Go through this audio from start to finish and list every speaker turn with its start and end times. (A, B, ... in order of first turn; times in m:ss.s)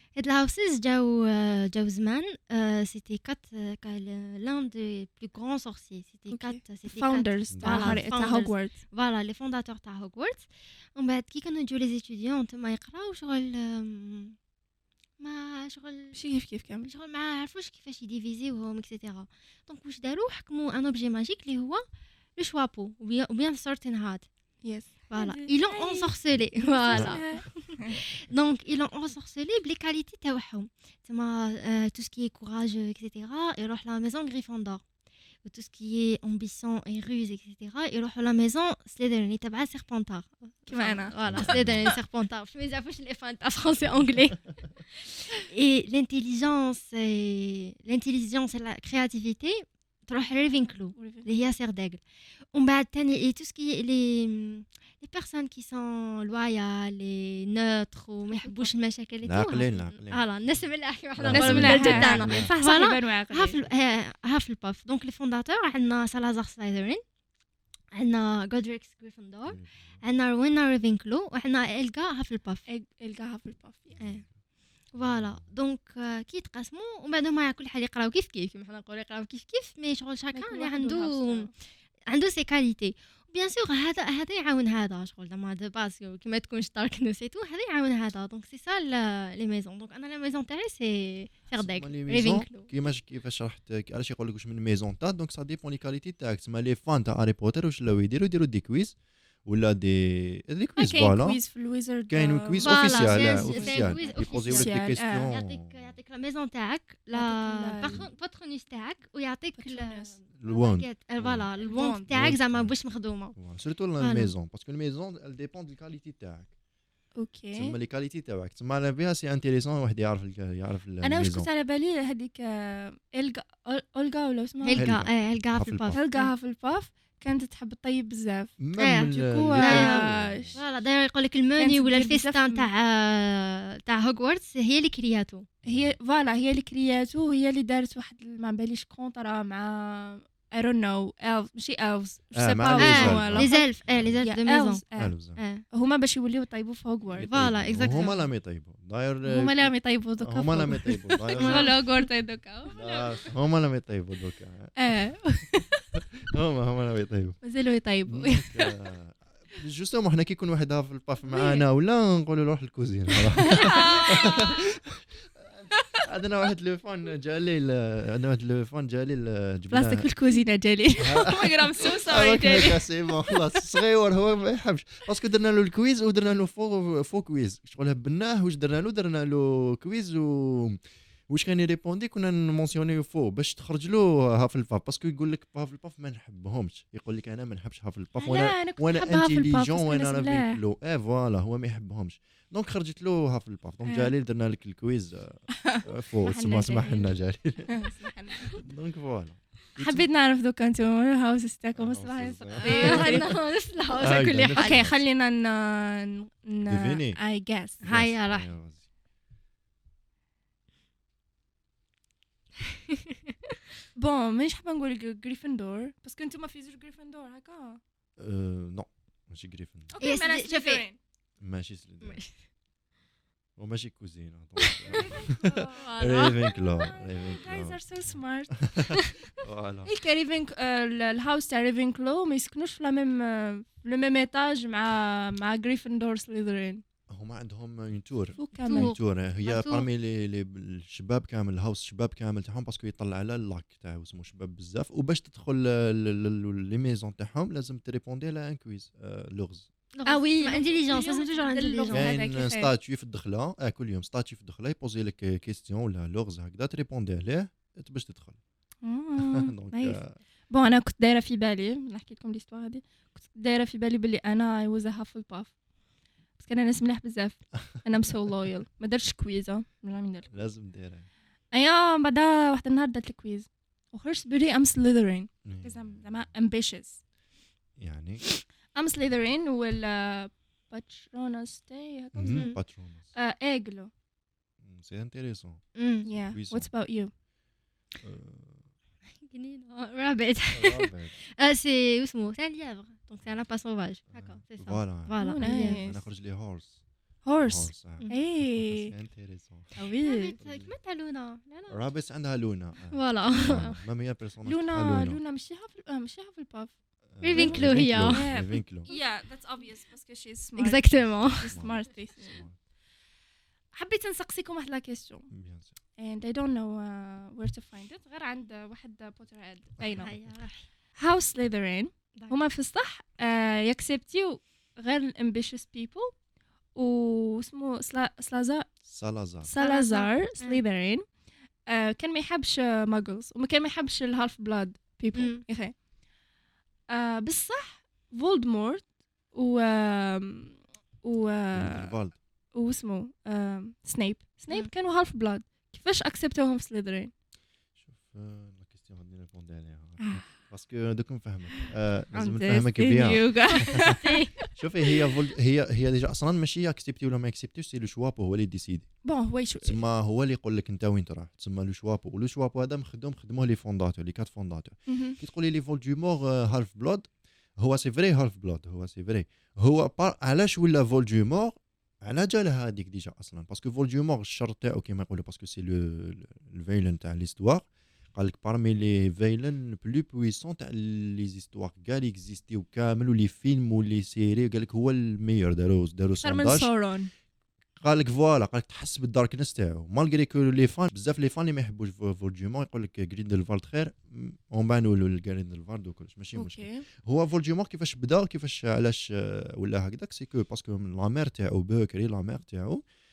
0:00.1-0:14.4 A
0:06.3-0:08.8 B
0:07.5-0:08.0 C
0:15.2-0:16.2 A
0:16.1-0:16.9 B
0:16.9-0:21.8 A
0:22.4-0:24.3 A
0:24.6-0:28.0 B
0:25.1-0:34.8 A
0:26.9-0:27.2 C
0:35.4-0:44.4 A
0:40.7-0:41.6 B
0:41.2-0:41.9 C
0:45.4-0:52.0 A
0:50.4-0:51.2 B
0:52.5-1:07.0 A
0:58.3-0:58.7 B
0:59.2-1:00.6 C
1:01.2-1:02.5 C
1:01.3-1:03.6 B
1:07.9-1:12.6 A
1:09.5-1:10.0 C
1:12.7-1:14.0 B
1:13.9-1:14.3 C
1:14.0-1:14.2 A
1:14.9-1:21.5 A
1:15.0-1:15.4 C
1:20.3-1:21.5 B
1:22.1-1:32.7 A
1:31.5-1:38.9 C
1:39.4-1:41.4 C
1:40.8-1:45.3 B
1:42.1-1:46.0 C
1:42.6-1:53.4 A
1:47.1-1:48.0 B
1:47.8-1:48.1 C
1:49.6-1:50.2 B
1:50.4-1:51.5 C
1:51.6-1:52.1 B
1:52.1-1:52.7 C
1:53.4-1:56.5 C
1:54.0-1:54.3 A
1:57.2-1:57.8 B
1:57.5-2:01.5 C
2:01.0-2:04.9 B
2:04.6-2:06.3 A
2:04.7-2:06.0 C
2:05.9-2:10.6 B
2:08.6-2:10.6 C
2:08.8-2:15.5 A
2:11.6-2:12.7 B
2:15.6-2:16.0 C
2:15.7-2:23.7 B
2:22.3-2:24.2 C
2:22.8-2:24.8 A
2:24.2-2:25.1 B
2:25.0-2:25.4 C
2:25.4-2:25.6 A
2:25.7-2:28.2 B
2:27.1-2:31.8 C
2:27.2-2:28.2 A
2:29.2-2:33.2 B
2:31.4-2:32.0 A
2:32.7-2:34.7 C
2:34.8-2:35.9 B
2:36.0-2:37.4 C
2:37.4-2:38.8 B
2:38.1-2:50.1 C
2:41.2-2:41.6 B
2:43.1-2:44.7 B
2:45.7-2:46.0 B
2:49.7-2:53.7 B
2:51.0-3:17.9 C
3:08.2-3:10.6 B
3:13.8-3:14.1 B
3:15.5-3:17.1 B
3:17.7-3:18.6 B
3:18.5-3:20.1 C
3:19.8-3:23.3 B
3:21.8-3:23.3 C
3:22.6-3:24.9 A
3:24.0-3:25.0 C
3:24.5-3:27.8 B
3:26.6-3:27.2 C
3:27.8-3:28.5 A
3:27.8-3:28.8 C
3:34.0-3:37.8 B
3:38.2-3:39.9 C
3:39.9-3:41.0 B
3:40.0-3:40.8 A
3:41.4-3:42.2 C
3:42.0-3:42.3 A
3:43.6-3:49.9 C
3:44.6-3:46.6 A
3:45.0-3:48.6 B
3:49.9-3:56.8 B
3:57.1-4:09.7 C
3:58.4-3:58.9 B
3:58.7-3:59.9 A
4:09.9-4:12.1 A
4:10.0-4:12.7 B
4:11.9-4:18.4 C
4:18.8-4:20.0 B
4:19.2-4:20.2 C
4:20.5-4:25.5 B
4:26.4-4:30.3 B
4:30.3-4:31.1 C
4:31.5-4:37.0 B
4:35.4-4:36.3 C
4:37.8-4:38.2 C
4:38.7-4:42.5 B
4:42.1-4:43.0 C
4:42.3-4:42.6 A
4:43.1-4:43.9 B
4:44.6-4:45.6 C
4:45.7-4:46.1 A
4:46.0-4:47.1 B
4:46.3-4:46.7 C
4:48.0-4:48.6 C
4:49.2-4:55.8 A
4:50.5-4:51.1 C
4:54.1-4:56.8 C
4:55.2-4:56.0 B
4:57.2-4:58.9 B
4:57.4-4:59.7 C
4:59.8-5:00.3 B
5:00.0-5:01.8 A
5:00.4-5:00.7 C
5:01.7-5:05.2 C
5:02.9-5:03.7 A
5:03.4-5:03.8 B
5:04.4-5:06.7 B
5:07.1-5:08.9 C
5:07.2-5:08.3 A
5:07.3-5:12.4 B
5:10.6-5:11.5 A
5:11.5-5:12.6 C
5:13.7-5:15.3 B
5:15.3-5:15.7 C
5:16.0-5:20.1 B
5:19.8-5:20.2 C
5:20.0-5:20.6 A
5:21.0-5:26.1 B
5:26.7-5:28.7 B
5:28.8-5:29.5 C
5:29.4-5:31.0 B
5:29.6-5:30.6 A
5:31.7-5:35.7 B
5:35.1-5:35.4 A
5:36.9-5:42.0 B
5:41.5-5:42.2 C
5:42.5-5:47.1 B
5:47.8-5:54.0 C
5:50.0-5:50.3 B
5:51.5-5:54.5 B
5:53.5-5:54.3 A
5:54.5-5:58.9 C
5:59.0-5:59.8 B
5:59.6-6:26.7 C
6:04.9-6:05.2 B
6:26.2-6:27.1 B
6:27.8-6:42.8 C
6:36.4-6:36.8 B